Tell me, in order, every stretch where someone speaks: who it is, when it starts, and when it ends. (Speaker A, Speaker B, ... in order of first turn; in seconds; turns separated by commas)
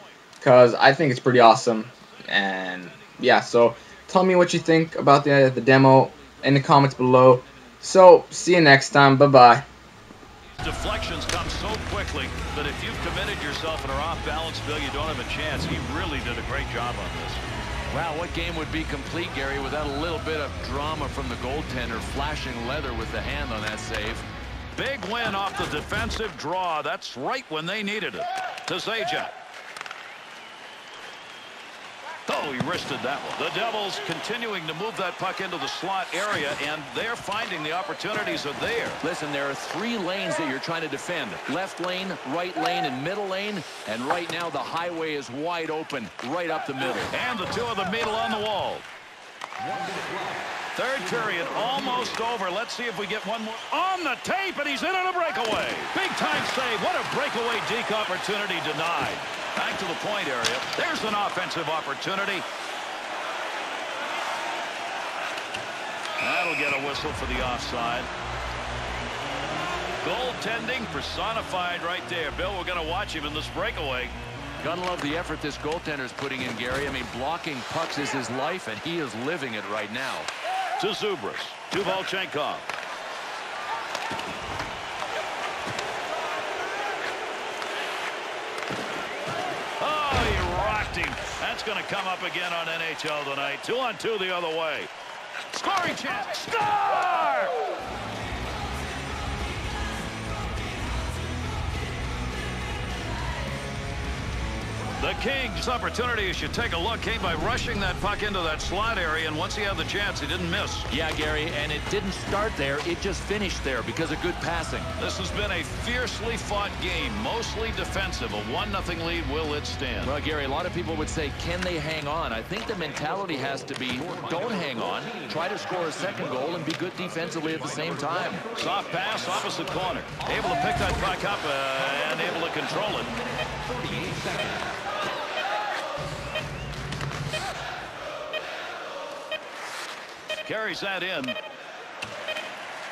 Speaker A: 0.4-9.7, Speaker B: 10.6-17.4, Speaker C: 17.9-24.3, Speaker B: 24.7-29.3, Speaker B: 32.3-39.0, Speaker C: 39.0-47.1, Speaker B: 47.1-48.9, Speaker B: 50.8-62.5, Speaker B: 66.2-68.1, Speaker B: 70.0-74.2, Speaker C: 74.6-80.3, Speaker B: 80.8-82.7, Speaker B: 89.8-94.9, Speaker B: 95.5-97.6, Speaker B: 105.0-110.9, Speaker C: 110.9-114.9, Speaker B: 115.0-120.1, Speaker C: 120.0-128.4, Speaker B: 128.5-133.2, Speaker B: 140.4-141.4